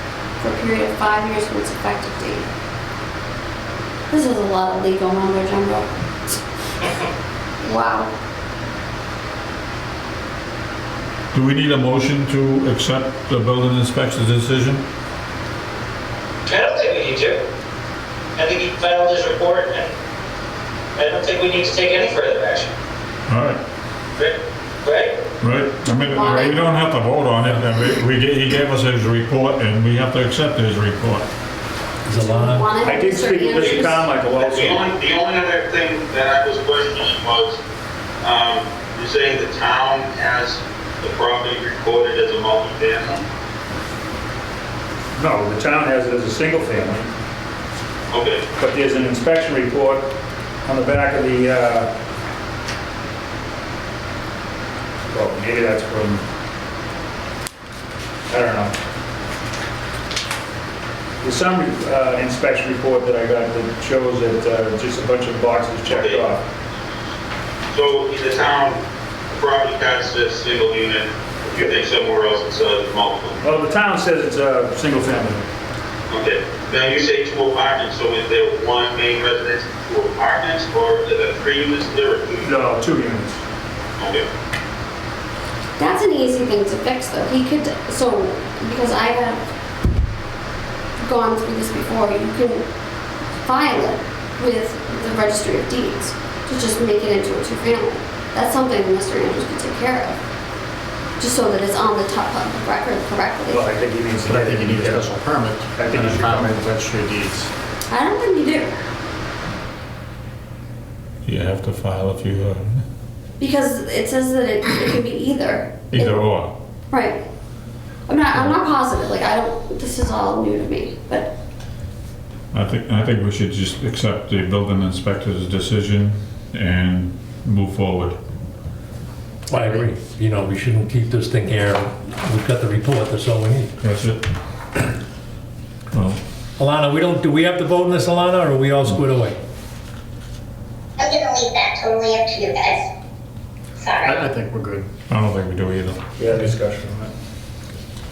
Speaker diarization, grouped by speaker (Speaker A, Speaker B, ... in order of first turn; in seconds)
Speaker A: 0.4-2.5, 4.1-6.4, 7.6-8.1, 25.8-26.6, 32.1-34.1, 85.8-89.5, 91.0-92.7, 93.4-100.2, 101.2-103.8, 107.9-108.8, 113.4-116.2, 116.9-117.2, 118.1-121.3
Speaker B: 11.3-14.8, 23.3-23.6, 25.4-31.3, 111.2-112.8, 115.9-116.5, 122.5-128.2, 133.8-134.2, 135.9-136.2, 145.1-146.4
Speaker C: 16.4-17.4, 18.4-19.9, 20.9-22.7, 24.2-25.2
Speaker D: 32.0-32.7, 129.5-133.7, 136.6-139.4
Speaker E: 32.8-35.0, 45.1-47.1, 48.6-50.1, 50.6-51.9, 55.1-56.2, 58.3-58.7, 61.2-66.4, 73.4-75.5, 82.4-83.4, 103.5-105.1, 105.7-106.7, 146.2-147.1
Speaker F: 33.5-37.6, 38.2-43.2, 48.1-48.4, 65.9-66.2, 67.7-73.4, 76.1-82.5, 84.0-84.2
Speaker G: 104.4-105.0, 105.9-106.7, 144.1-144.9
Speaker H: 141.0-142.9, 143.8-144.1